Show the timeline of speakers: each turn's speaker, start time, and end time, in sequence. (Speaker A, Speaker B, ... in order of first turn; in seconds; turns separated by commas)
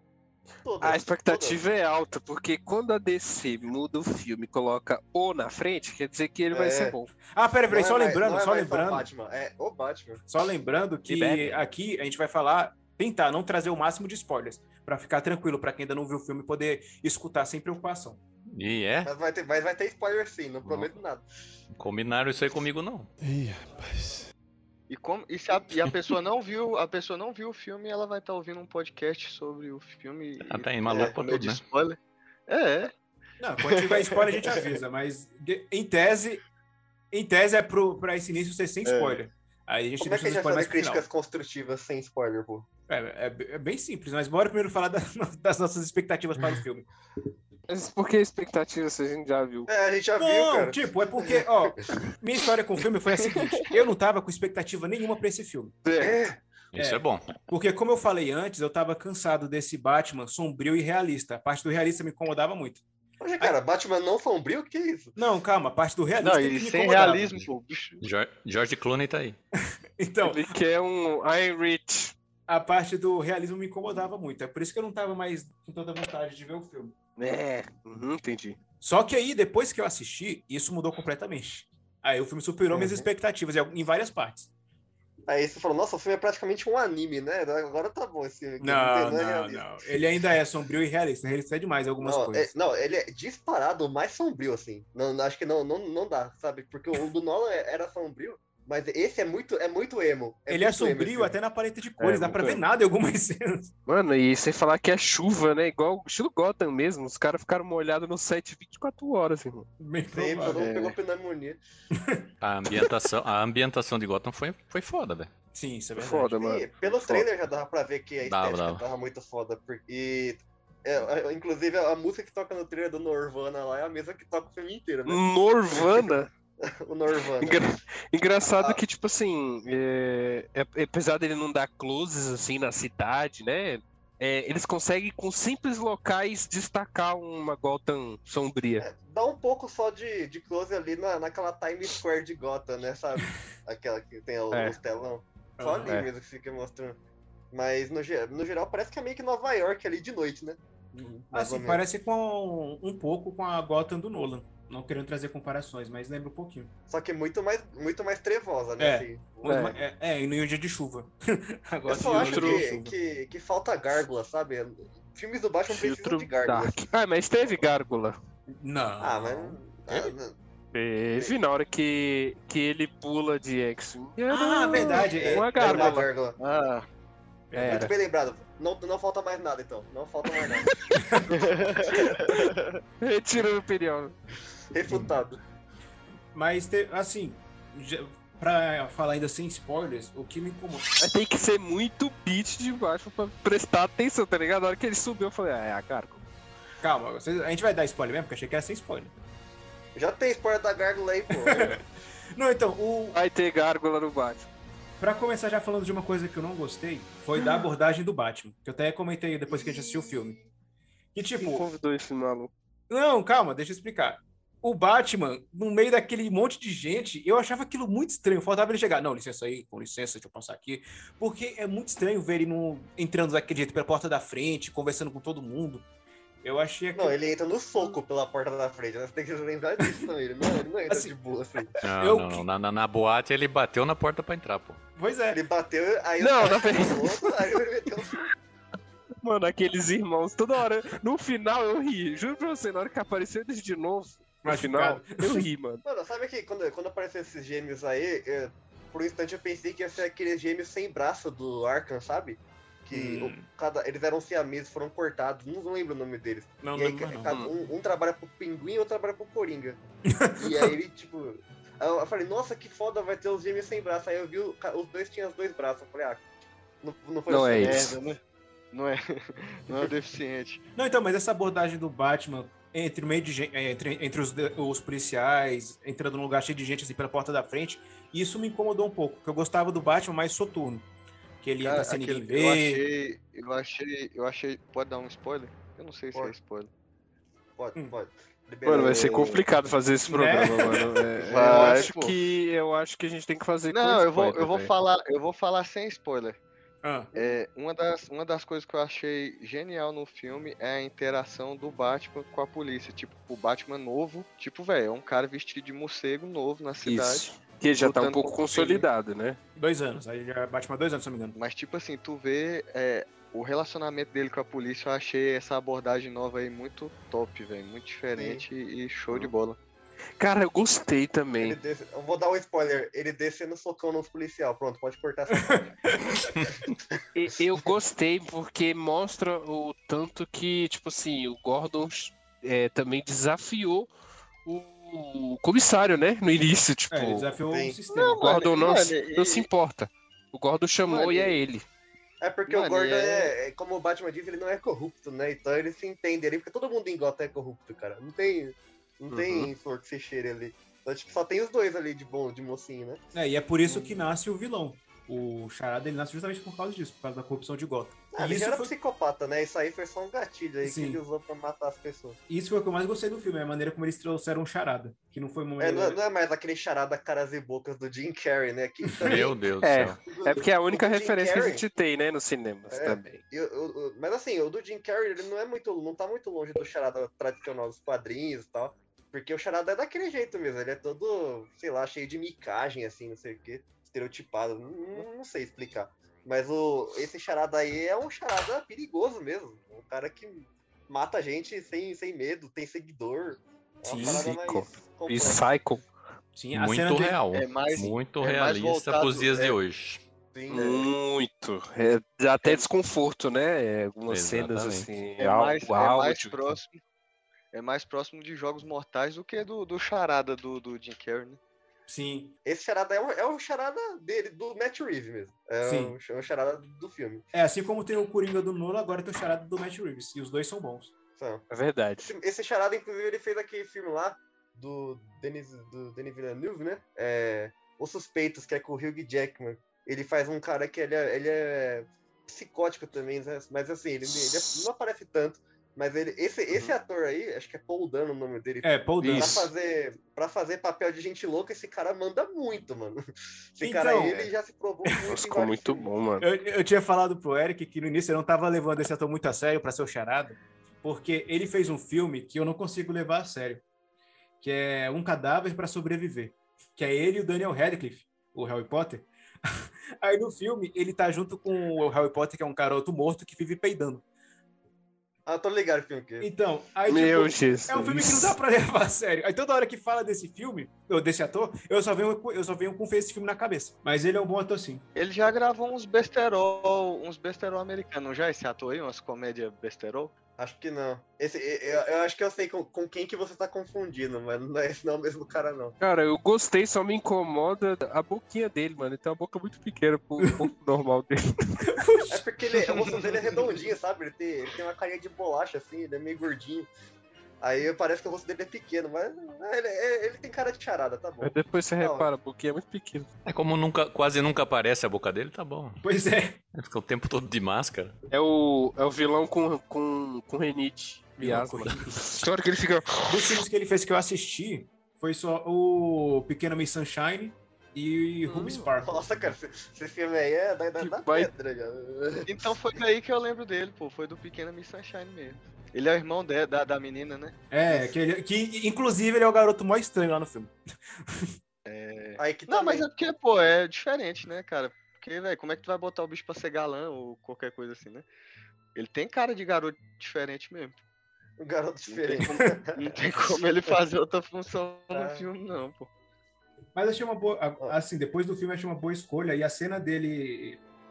Speaker A: 0.6-1.6, Speaker B: 0.8-7.1, Speaker A: 6.5-6.9, Speaker C: 7.3-9.1, Speaker A: 7.7-10.2, Speaker C: 10.3-18.2, Speaker B: 11.1-11.6, Speaker D: 18.5-19.1, Speaker A: 19.0-21.2, Speaker D: 21.8-23.1, Speaker E: 24.9-32.9, Speaker D: 30.4-31.6, Speaker C: 33.4-36.4, Speaker E: 33.7-34.6, Speaker C: 37.1-41.1, Speaker E: 38.9-39.2, Speaker A: 40.0-42.7, Speaker C: 42.9-46.9, Speaker B: 47.7-49.7, Speaker A: 49.7-51.8, Speaker C: 50.2-55.8, Speaker B: 55.8-56.2, Speaker A: 56.0-56.4, Speaker D: 56.7-57.3, Speaker C: 56.7-62.8, Speaker A: 63.2-65.2, Speaker C: 65.2-67.4, Speaker E: 66.2-68.0, Speaker D: 68.0-69.4, Speaker C: 70.0-70.5, Speaker B: 70.2-72.1, Speaker C: 72.5-76.9, Speaker B: 77.2-78.6, Speaker C: 78.8-84.5, Speaker A: 82.7-83.1, Speaker A: 85.3-89.6, Speaker C: 88.6-92.5, Speaker A: 92.0-101.3, Speaker C: 100.5-103.7, Speaker B: 102.0-102.6, Speaker B: 103.9-109.7, Speaker C: 109.8-110.6, Speaker A: 110.1-111.6, Speaker E: 110.5-110.9, Speaker C: 111.9-112.3, Speaker D: 112.4-115.3, Speaker C: 115.5-116.3, Speaker B: 116.0-117.3, Speaker A: 116.3-127.8, Speaker D: 118.2-118.8, Speaker B: 125.0-126.3, Speaker B: 127.4-138.8, Speaker A: 128.5-128.8, Speaker A: 138.8-147.0, Speaker B: 144.5-144.8, Speaker C: 145.6-146.0, Speaker A: 147.5-151.8, Speaker C: 151.3-156.7, Speaker A: 156.9-159.6, Speaker C: 158.8-162.9, Speaker B: 159.4-159.8, Speaker A: 161.9-166.8, Speaker B: 162.1-162.9, Speaker B: 165.7-168.2, Speaker C: 168.5-170.1, Speaker A: 169.0-170.3, Speaker B: 170.7-176.1, Speaker C: 174.3-175.9, Speaker A: 175.1-176.4, Speaker E: 176.4-176.9, Speaker C: 177.5-177.9, Speaker B: 177.5-177.9, Speaker A: 177.6-180.7, Speaker C: 180.9-181.4, Speaker E: 181.3-182.8, Speaker A: 181.8-182.4, Speaker B: 183.0-184.2, Speaker A: 184.7-185.4, Speaker C: 186.3-190.9, Speaker B: 191.0-196.2, Speaker C: 196.8-199.1, Speaker A: 199.9-201.8, Speaker C: 201.3-201.8, Speaker C: 202.3-203.2, Speaker B: 203.1-204.5, Speaker C: 205.0-210.4, Speaker A: 209.5-210.4, Speaker C: 211.1-211.7, Speaker B: 211.4-212.5, Speaker C: 212.9-225.8, Speaker C: 226.4-227.2, Speaker A: 226.9-231.7, Speaker C: 230.9-231.1, Speaker D: 231.8-234.8, Speaker C: 232.0-232.4, Speaker C: 235.0-235.4, Speaker A: 235.3-238.2, Speaker B: 236.2-237.3, Speaker B: 239.2-245.8, Speaker C: 244.4-245.4, Speaker A: 245.8-259.8, Speaker C: 252.9-253.5, Speaker C: 256.6-257.3, Speaker C: 260.1-260.7, Speaker A: 260.4-266.2, Speaker A: 266.8-268.0, Speaker B: 267.3-267.9, Speaker E: 267.6-268.2, Speaker E: 268.7-270.6, Speaker C: 270.8-280.8, Speaker C: 281.4-282.8, Speaker E: 281.6-286.7, Speaker A: 287.6-289.2, Speaker B: 288.6-294.7, Speaker E: 288.7-289.4, Speaker C: 290.1-290.9, Speaker E: 291.2-292.1, Speaker E: 293.7-296.4, Speaker C: 296.8-297.1, Speaker E: 297.1-308.9, Speaker B: 306.8-309.4, Speaker C: 309.6-311.4, Speaker E: 311.3-319.6, Speaker A: 318.1-318.4, Speaker B: 320.2-321.6, Speaker A: 321.4-327.0, Speaker C: 325.4-326.0, Speaker B: 327.1-333.9, Speaker B: 334.4-337.4, Speaker C: 336.9-338.2, Speaker A: 337.5-337.8, Speaker E: 337.9-339.5, Speaker B: 338.2-341.6, Speaker E: 340.9-341.3, Speaker A: 342.2-353.0, Speaker E: 342.5-343.3, Speaker B: 349.1-349.4, Speaker C: 353.1-358.7, Speaker A: 353.7-353.9, Speaker A: 358.1-362.2, Speaker C: 360.6-361.0, Speaker C: 362.3-366.0, Speaker A: 365.6-369.3, Speaker D: 369.0-370.0, Speaker B: 369.6-373.2, Speaker A: 370.1-371.6, Speaker A: 372.7-395.4, Speaker C: 393.8-394.3, Speaker B: 393.9-395.8, Speaker C: 396.3-397.2, Speaker D: 396.5-400.0, Speaker E: 397.3-399.3, Speaker A: 400.3-400.8, Speaker B: 400.5-406.6, Speaker D: 404.1-404.9, Speaker E: 405.2-406.8, Speaker E: 407.5-411.4, Speaker C: 411.9-412.3, Speaker A: 412.4-417.2, Speaker C: 415.6-416.0, Speaker C: 417.3-420.9, Speaker A: 421.2-421.4, Speaker B: 421.5-422.1, Speaker A: 422.0-443.0, Speaker C: 438.6-439.5, Speaker B: 439.0-439.4, Speaker A: 443.5-445.9, Speaker C: 443.6-444.3, Speaker B: 445.1-446.3, Speaker C: 446.2-453.6, Speaker C: 454.4-464.0, Speaker A: 465.2-466.3, Speaker C: 466.2-474.8, Speaker B: 466.9-468.3, Speaker E: 474.9-480.1, Speaker A: 480.4-485.8, Speaker B: 485.8-491.6, Speaker C: 491.7-492.2, Speaker A: 492.1-496.7, Speaker A: 497.4-502.1, Speaker B: 501.2-503.1, Speaker D: 503.2-505.8, Speaker C: 505.8-506.4, Speaker D: 506.5-507.9, Speaker B: 508.1-513.4, Speaker C: 511.2-512.2, Speaker C: 513.1-519.1, Speaker A: 518.3-522.5, Speaker B: 520.8-521.3, Speaker E: 522.2-527.4, Speaker C: 527.5-531.3, Speaker E: 531.6-538.0, Speaker A: 532.2-532.9, Speaker E: 538.7-540.8, Speaker A: 541.4-543.8, Speaker E: 541.9-545.9, Speaker A: 544.9-545.2, Speaker C: 546.7-550.6